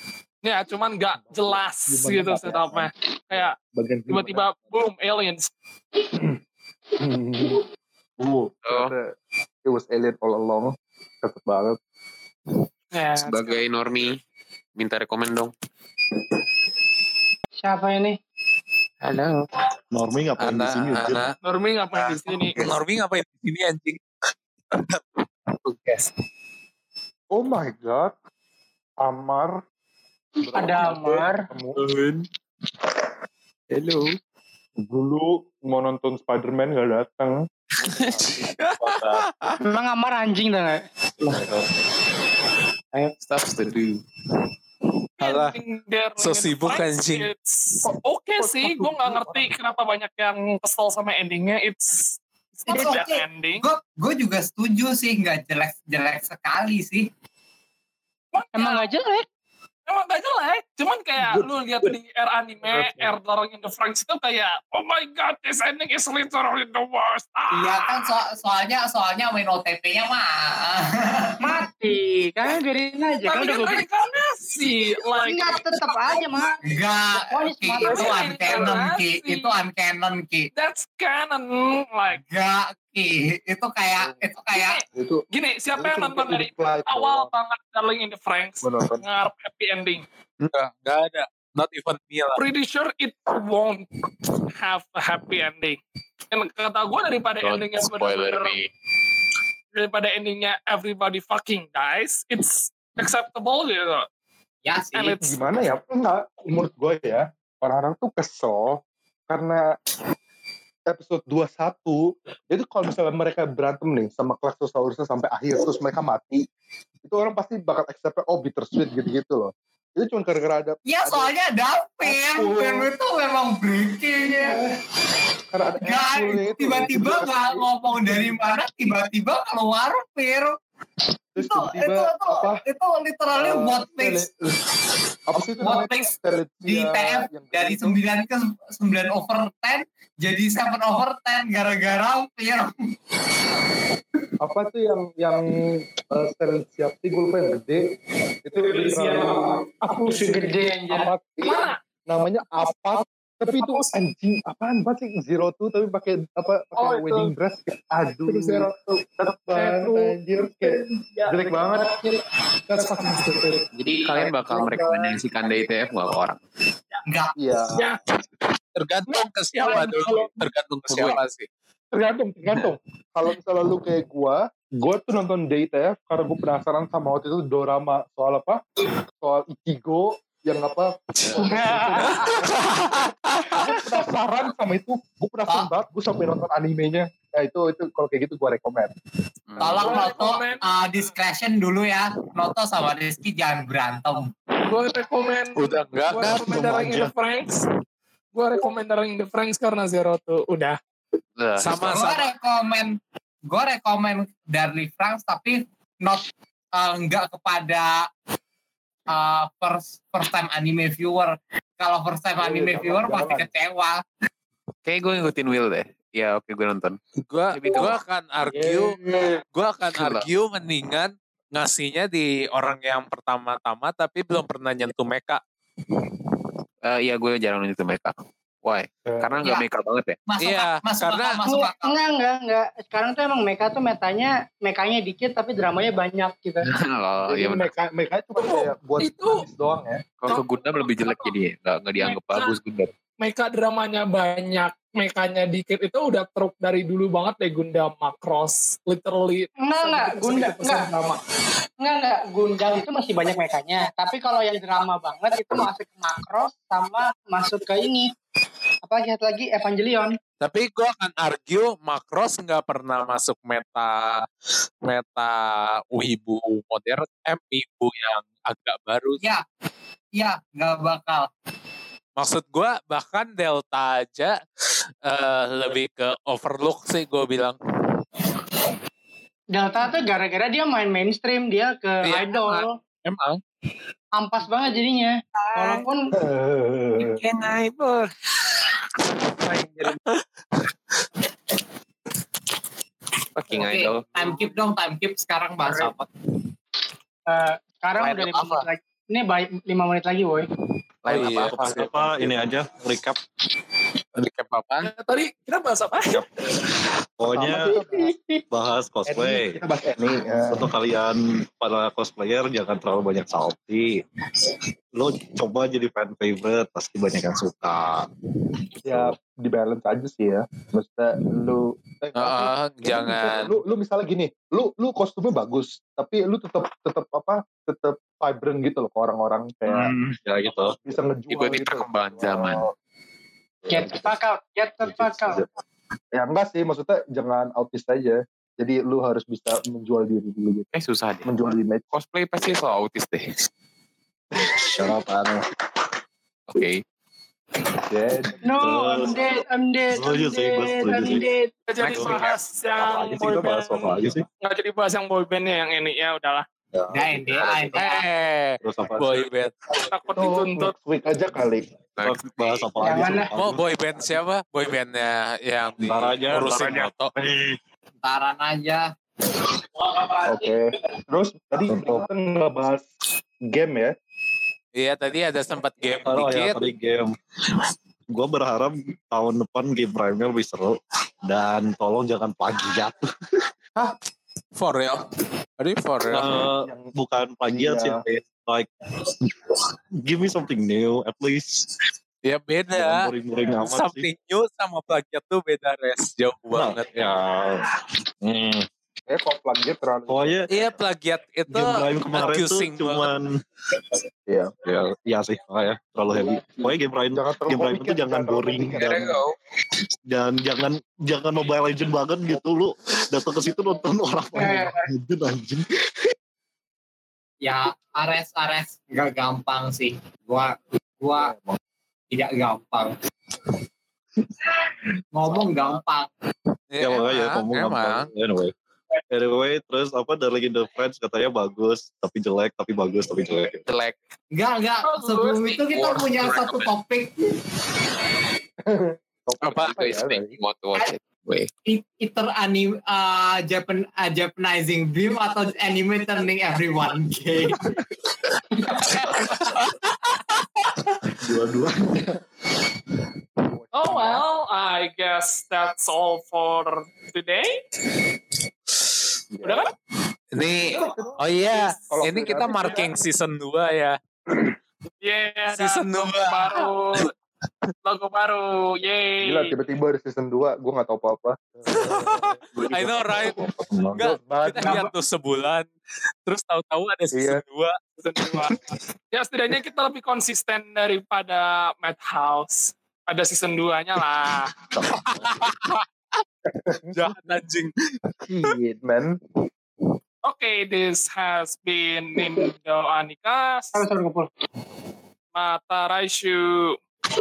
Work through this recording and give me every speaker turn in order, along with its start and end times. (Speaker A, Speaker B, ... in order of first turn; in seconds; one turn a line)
Speaker A: 0.4-3.5
Speaker B: 1.1-4.5
Speaker A: 4.1-5.5
Speaker B: 7.0-7.6
Speaker B: 8.2-9.1
Speaker C: 8.6-8.9
Speaker B: 9.7-11.8
Speaker A: 12.9-13.6
Speaker C: 13.2-14.2
Speaker C: 14.8-15.5
Speaker D: 17.6-18.2
Speaker C: 19.0-19.4
Speaker E: 19.9-21.2
Speaker F: 20.4-21.4
Speaker A: 21.4-22.6
Speaker F: 22.5-24.0
Speaker C: 25.6-26.1
Speaker B: 27.3-28.1
Speaker B: 29.0-29.6
Speaker B: 30.4-31.8
Speaker D: 30.5-31.5
Speaker E: 31.8-32.2
Speaker B: 34.8-38.5
Speaker F: 38.5-39.6
Speaker E: 38.8-39.3
Speaker D: 39.6-40.8
Speaker E: 41.2-41.7
Speaker C: 42.9-44.0
Speaker A: 45.2-53.6
Speaker F: 45.2-45.6
Speaker F: 46.2-47.3
Speaker B: 47.8-49.5
Speaker G: 52.7-57.1
Speaker A: 58.3-58.9
Speaker D: 58.5-59.2
Speaker A: 59.9-68.1
Speaker B: 61.2-61.9
Speaker B: 62.6-63.1
Speaker G: 67.5-71.5
Speaker D: 71.4-73.8
Speaker A: 73.2-75.9
Speaker D: 75.1-76.6
Speaker G: 76.7-80.5
Speaker D: 77.1-78.3
Speaker A: 77.8-79.5
Speaker A: 80.5-82.2
Speaker G: 82.1-84.8
Speaker B: 84.0-84.2
Speaker A: 84.5-90.0
Speaker B: 84.9-85.2
Speaker B: 85.8-87.3
Speaker B: 88.6-89.0
Speaker F: 90.4-92.4
Speaker A: 92.4-93.9
Speaker A: 94.5-95.8
Speaker A: 96.3-98.5
Speaker C: 97.4-98.7
Speaker A: 99.7-104.1
Speaker G: 104.6-105.2
Speaker A: 104.9-105.4
Speaker B: 105.2-109.6
Speaker B: 110.9-112.0
Speaker B: 112.5-116.4
Speaker B: 117.0-121.3
Speaker G: 120.8-124.6
Speaker B: 122.0-122.9
Speaker B: 124.2-124.7
Speaker B: 125.5-128.4
Speaker G: 125.8-130.6
Speaker B: 131.4-132.6
Speaker G: 131.4-134.3
Speaker B: 133.3-134.3
Speaker B: 135.3-138.0
Speaker G: 135.5-142.7
Speaker B: 144.4-147.8
Speaker B: 148.4-162.0
Speaker A: 148.6-149.6
Speaker D: 150.0-151.1
Speaker A: 151.4-151.8
Speaker A: 152.6-153.9
Speaker A: 156.8-157.3
Speaker D: 159.5-160.2
Speaker D: 161.3-162.1
Speaker B: 162.7-165.0
Speaker C: 163.7-166.4
Speaker G: 167.1-167.3
Speaker B: 167.4-167.8
Speaker F: 168.8-171.5
Speaker A: 169.6-170.2
Speaker B: 169.7-170.3
Speaker B: 171.9-178.6
Speaker B: 179.2-188.9
Speaker D: 181.3-182.3
Speaker F: 182.2-183.6
Speaker C: 189.5-190.1
Speaker G: 189.6-194.3
Speaker A: 189.8-191.1
Speaker A: 194.6-197.7
Speaker F: 195.6-196.9
Speaker E: 196.3-197.1
Speaker A: 198.3-200.8
Speaker C: 201.4-202.1
Speaker F: 201.6-202.2
Speaker G: 201.8-202.9
Speaker G: 203.5-208.1
Speaker G: 209.1-214.0
Speaker B: 212.4-213.5
Speaker C: 214.8-217.0
Speaker F: 217.2-219.0
Speaker C: 217.5-218.0
Speaker B: 218.4-219.3
Speaker F: 219.5-225.4
Speaker C: 219.9-220.3
Speaker C: 226.8-230.2
Speaker B: 229.1-229.4
Speaker G: 229.4-229.7
Speaker G: 230.2-232.0
Speaker F: 230.4-231.4
Speaker D: 231.4-236.7
Speaker C: 236.6-237.7
Speaker B: 237.3-240.0
Speaker A: 238.3-239.5
Speaker C: 240.2-242.9
Speaker A: 240.2-241.3
Speaker A: 242.0-242.5
Speaker A: 243.2-251.2
Speaker D: 249.6-251.0
Speaker D: 251.8-258.1
Speaker D: 258.8-260.2
Speaker F: 260.4-264.2
Speaker F: 264.8-269.2
Speaker G: 270.1-271.3
Speaker F: 272.2-274.4
Speaker F: 275.0-277.6
Speaker D: 279.5-282.8
Speaker F: 282.1-283.4
Speaker D: 284.2-286.1
Speaker C: 285.6-285.8
Speaker B: 286.1-287.2
Speaker C: 287.0-288.1
Speaker C: 289.4-289.9
Speaker C: 293.4-294.5
Speaker G: 293.5-296.1
Speaker D: 297.3-300.5
Speaker C: 298.0-298.7
Speaker C: 301.0-302.4
Speaker E: 301.1-303.2
Speaker F: 301.1-301.8
Speaker F: 304.2-304.9
Speaker A: 304.8-306.2
Speaker E: 307.2-307.8
Speaker B: 307.3-308.1
Speaker D: 307.6-308.4
Speaker E: 308.5-309.6
Speaker B: 309.1-310.7
Speaker E: 310.5-314.0
Speaker E: 314.9-318.1
Speaker E: 318.8-319.1
Speaker B: 318.8-329.9
Speaker C: 322.2-323.4
Speaker E: 329.7-330.8
Speaker B: 330.8-332.7
Speaker C: 331.3-332.6
Speaker E: 333.6-334.1
Speaker D: 333.7-335.4
Speaker E: 334.9-335.5
Speaker B: 336.1-340.7
Speaker C: 340.7-343.3
Speaker B: 341.2-341.9
Speaker E: 344.8-345.4
Speaker C: 346.5-346.8
Speaker B: 347.9-348.7
Speaker D: 348.4-351.5
Speaker E: 348.5-349.2
Speaker E: 349.9-351.3
Speaker A: 351.7-356.4
Speaker F: 351.8-352.4
Speaker E: 351.8-352.2
Speaker E: 352.8-354.2
Speaker E: 356.7-357.8
Speaker G: 356.9-358.1
Speaker F: 357.8-359.5
Speaker E: 358.6-359.3
Speaker A: 359.9-360.7
Speaker B: 360.1-361.6
Speaker C: 362.0-362.2
Speaker E: 362.0-364.2
Speaker D: 362.8-363.3
Speaker F: 363.3-367.1
Speaker E: 365.8-367.6
Speaker G: 368.0-368.9
Speaker B: 370.2-372.9
Speaker E: 371.7-372.1
Speaker B: 373.5-373.9
Speaker F: 374.8-376.6
Speaker E: 376.0-377.2
Speaker E: 378.1-383.0
Speaker F: 384.6-385.0
Speaker F: 385.6-386.3
Speaker E: 386.1-391.7
Speaker B: 386.6-386.9
Speaker B: 387.5-388.0
Speaker F: 392.2-393.0
Speaker E: 392.7-394.1
Speaker F: 393.6-397.1
Speaker E: 396.5-398.7
Speaker B: 399.1-400.7
Speaker E: 400.1-400.4
Speaker F: 400.5-403.1
Speaker E: 401.5-403.3
Speaker B: 404.3-404.5
Speaker E: 404.6-409.1
Speaker B: 406.2-409.1
Speaker C: 408.7-409.4
Speaker E: 410.1-416.1
Speaker D: 414.4-414.8
Speaker G: 417.4-421.3
Speaker G: 422.1-422.9
Speaker G: 425.1-426.1
Speaker F: 426.7-428.1
Speaker E: 426.8-428.5
Speaker E: 429.1-433.6
Speaker C: 433.6-434.0
Speaker G: 434.3-437.2
Speaker A: 434.8-435.9
Speaker C: 435.7-436.7
Speaker B: 438.7-440.4
Speaker C: 439.4-441.5
Speaker G: 441.7-447.7
Speaker E: 451.2-452.1
Speaker B: 453.5-454.2
Speaker A: 453.7-457.6
Speaker B: 459.3-459.6
Speaker A: 459.4-459.7
Speaker F: 460.3-464.0
Speaker B: 460.7-462.9
Speaker A: 465.0-467.1
Speaker F: 465.5-467.1
Speaker A: 467.8-469.5
Speaker B: 469.2-474.9
Speaker F: 471.7-473.4
Speaker F: 473.9-475.7
Speaker A: 474.6-474.8
Speaker F: 476.2-477.8
Speaker B: 477.1-477.4
Speaker A: 478.0-484.5
Speaker B: 484.8-485.3
Speaker F: 484.9-485.9
Speaker B: 486.7-487.2
Speaker F: 486.9-487.9
Speaker B: 488.2-489.1
Speaker A: 490.2-493.8
Speaker D: 493.7-494.3
Speaker A: 495.3-496.8